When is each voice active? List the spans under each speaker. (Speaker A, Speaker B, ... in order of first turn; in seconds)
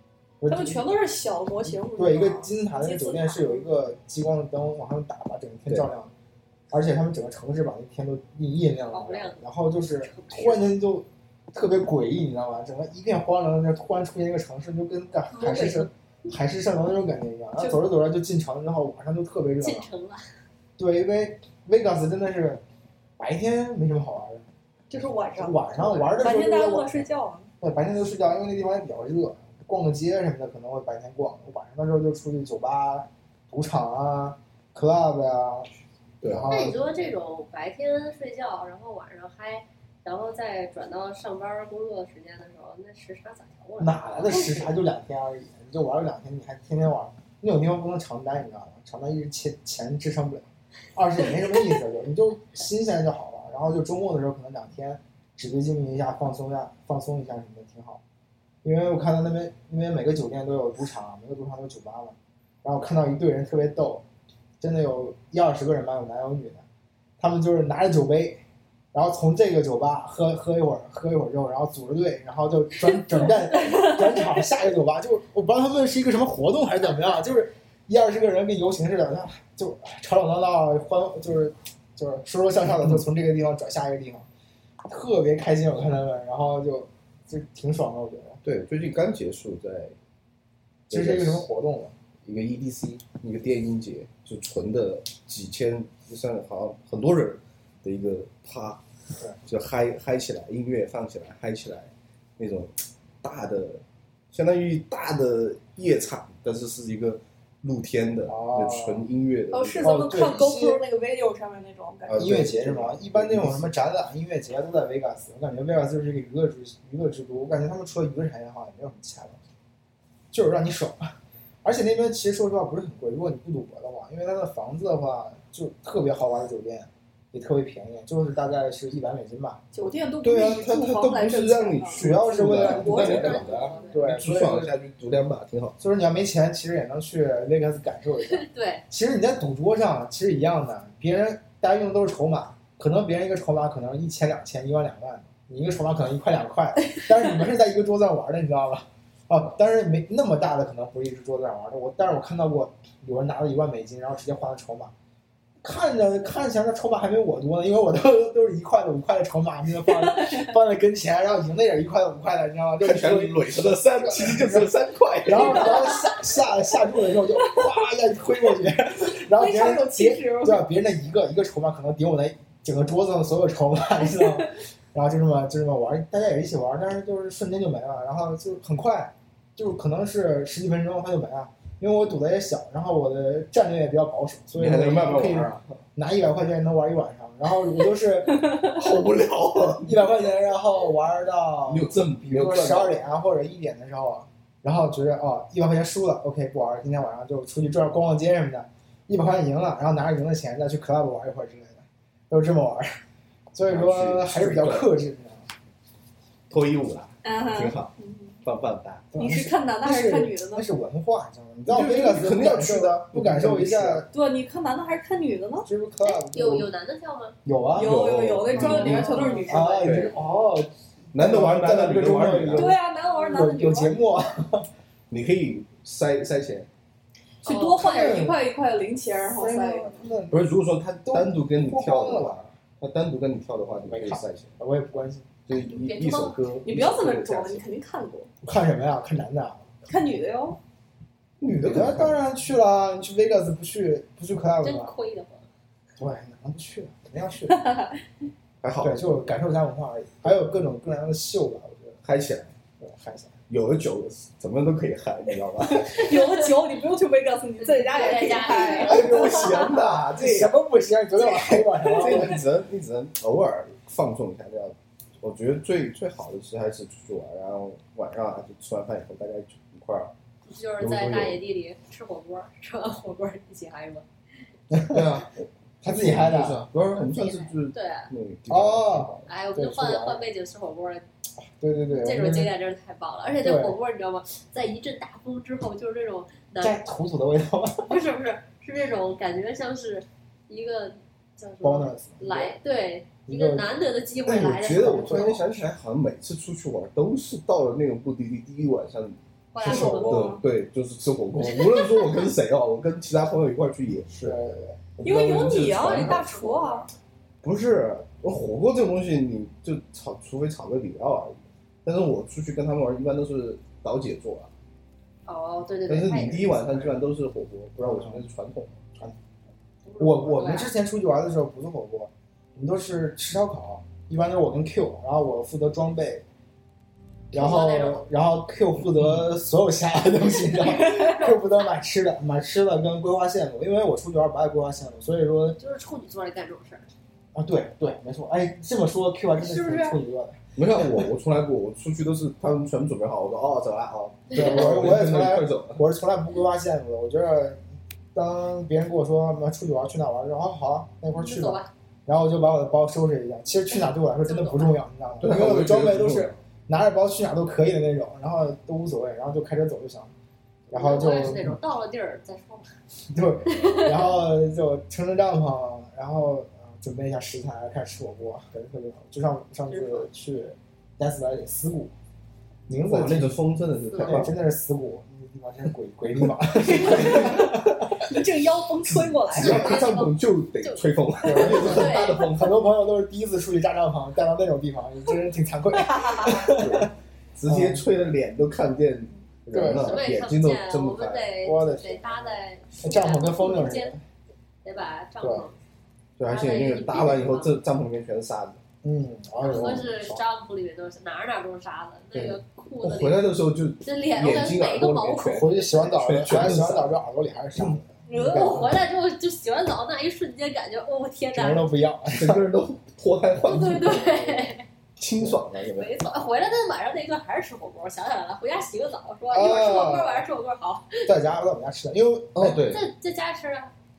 Speaker A: 0.4-0.8, 1.7-6.1, 6.7-19.9, 20.8-22.6, 23.2-24.5, 25.4-27.1, 27.6-35.7, 36.2-36.8, 43.8-58.0, 58.6-64.0, 64.6-66.6, 67.2-68.4, 68.9-84.2, 84.8-88.4, 90.9-91.9, 108.3-109.0, 109.8-110.8, 112.2-119.4, 120.3-129.6, 131.9-134.7, 135.8-154.9, 155.6-188.7, 189.8-202.9, 203.5-205.4, 209.1-214.1, 215.6-216.7, 217.4-224.7, 227.7-228.4, 229.2-230.5, 231.1-232.5, 233.9-235.3, 238.4-239.7, 241.5-244.9, 246.0-247.8, 248.8-252.0, 252.8-253.3, 258.6-262.4, 274.7-275.2, 275.8-276.7, 278.5-280.2, 281.5-282.5, 283.4-283.8, 286.6-287.9, 291.6-292.6, 293.2-293.7, 294.6-295.6, 304.2-304.8, 305.8-306.2, 317.8-318.2, 320.0-326.2, 327.3-335.6, 337.3-341.1, 344.3-347.6, 348.1-360.1, 360.7-361.5, 363.1-371.9, 372.7-373.4, 373.9-378.0, 381.2-386.9, 387.5-387.9, 389.5-390.0, 391.4-394.0, 395.2-395.4, 398.8-400.2, 405.3-407.9, 411.3-412.4, 419.3-420.3, 421.0-422.6
Speaker B: 0.5-3.7, 15.3-15.9, 17.6-17.8, 24.9-27.5, 109.5-112.4, 129.7-133.9, 169.3-170.7, 174.2-174.4, 207.2-208.3, 209.2-210.7, 214.1-215.7, 217.7-220.1, 222.5-223.9, 227.4-230.1, 236.6-238.3, 239.8-240.6, 255.8-259.7, 299.6-300.4, 305.0-306.9, 330.6-331.2, 339.4-340.0, 376.7-379.7, 385.9-386.4, 408.1-408.7
Speaker C: 8.9-10.7, 19.6-20.2, 36.5-44.6, 132.9-134.0, 138.3-138.8, 216.0-217.3, 219.1-219.7, 227.4-228.2, 235.5-236.4, 244.6-245.5, 256.0-256.5, 257.6-259.2, 270.4-274.0, 276.9-278.1, 279.2-281.1, 281.9-286.8, 287.9-295.4, 299.5-300.4, 301.4-301.9, 306.3-306.9, 315.3-316.9, 319.8-320.7, 327.3-328.1, 330.6-331.4, 335.6-336.9, 344.3-344.6, 351.1-351.7, 354.2-354.8, 360.7-362.7, 363.5-364.1, 379.3-382.2, 389.8-393.9, 394.6-395.6, 396.3-397.6, 399.4-403.3, 403.8-405.7, 408.1-411.7, 413.4-414.6, 415.6-421.1, 422.5-423.7
Speaker D: 36.2-36.5, 88.4-89.9, 90.9-91.5, 92.2-98.8, 99.4-109.9, 112.1-113.7, 130.2-135.8, 162.8-165.9, 184.5-185.8, 188.6-190.0, 191.7-193.0, 203.7-204.9, 206.5-209.1, 211.7-214.1, 217.8-220.1, 221.1-222.7, 225.1-226.7, 230.3-234.5, 235.5-237.6, 241.4-242.2, 248.6-249.0, 252.0-252.5, 253.5-256.0, 258.7-260.5, 261.3-270.1, 270.8-271.4, 274.9-279.3, 294.2-304.4, 305.0-306.3, 307.4-314.5, 315.9-318.9, 340.6-345.8, 355.2-356.4, 372.8-374.4, 376.8-377.3, 378.9-382.6, 386.3-391.3, 396.2-398.6, 399.5-399.9, 402.1-406.9, 408.3-408.7, 412.1-414.3, 415.0-415.9, 422.3-422.9